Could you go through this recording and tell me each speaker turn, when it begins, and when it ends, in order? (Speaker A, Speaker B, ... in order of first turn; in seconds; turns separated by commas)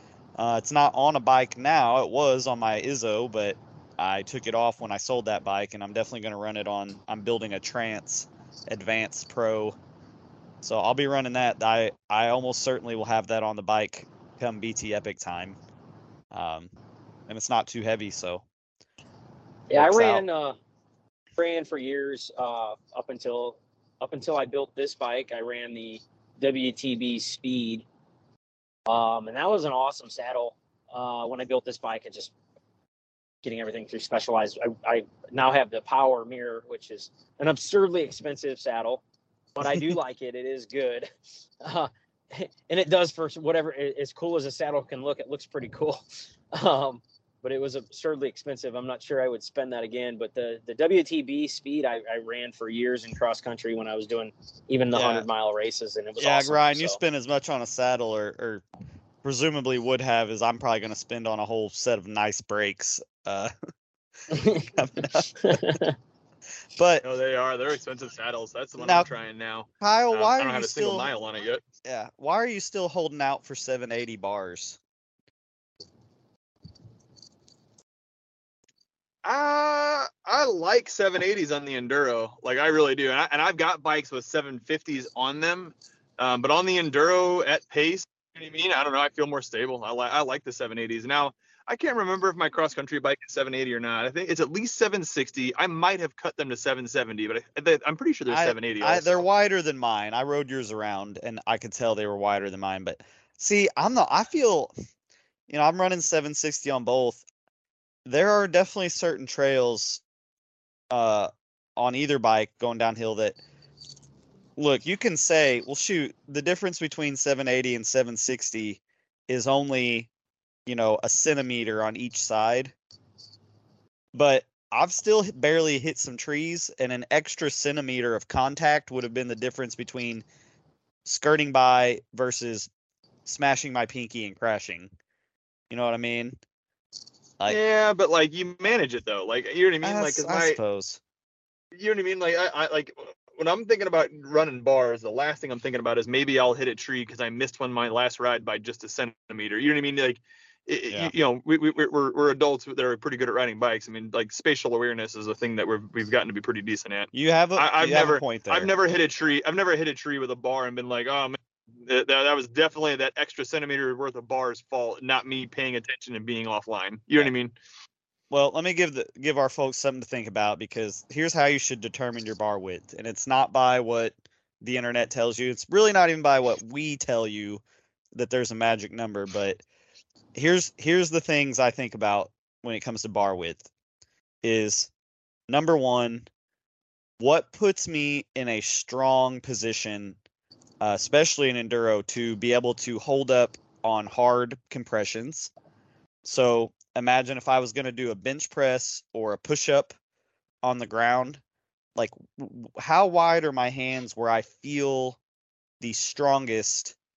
Speaker A: 0.4-9.8, Speaker A: 10.6-15.6, Speaker A: 16.3-16.7, Speaker A: 17.3-18.4, Speaker B: 19.7-20.6, Speaker A: 19.7-20.2, Speaker B: 21.4-27.8, Speaker B: 28.9-32.3, Speaker B: 33.4-39.0, Speaker B: 39.5-41.1, Speaker A: 39.6-40.0, Speaker B: 41.6-57.0, Speaker A: 54.9-55.2, Speaker A: 56.2-58.6, Speaker A: 59.2-63.5, Speaker B: 64.3-65.9, Speaker A: 64.7-65.7, Speaker A: 66.8-67.0, Speaker C: 67.0-71.6, Speaker A: 68.8-69.1, Speaker A: 69.8-71.1, Speaker A: 71.8-74.8, Speaker C: 79.2-99.2, Speaker A: 98.3-104.7, Speaker A: 105.5-107.2, Speaker A: 108.0-110.0, Speaker A: 110.9-113.4, Speaker A: 114.6-120.1, Speaker A: 120.7-122.7, Speaker A: 124.1-130.2, Speaker A: 131.0-132.7, Speaker A: 133.2-134.9, Speaker A: 135.7-136.4, Speaker C: 137.5-140.6, Speaker A: 139.8-141.0, Speaker C: 141.7-167.5, Speaker A: 157.1-158.7, Speaker A: 168.3-177.6, Speaker A: 178.1-179.6, Speaker A: 180.3-183.7, Speaker A: 184.4-184.9, Speaker A: 185.5-186.2, Speaker A: 187.2-190.2, Speaker A: 190.8-195.5, Speaker A: 196.2-199.9, Speaker A: 200.6-201.4, Speaker A: 201.9-205.2, Speaker A: 205.8-206.9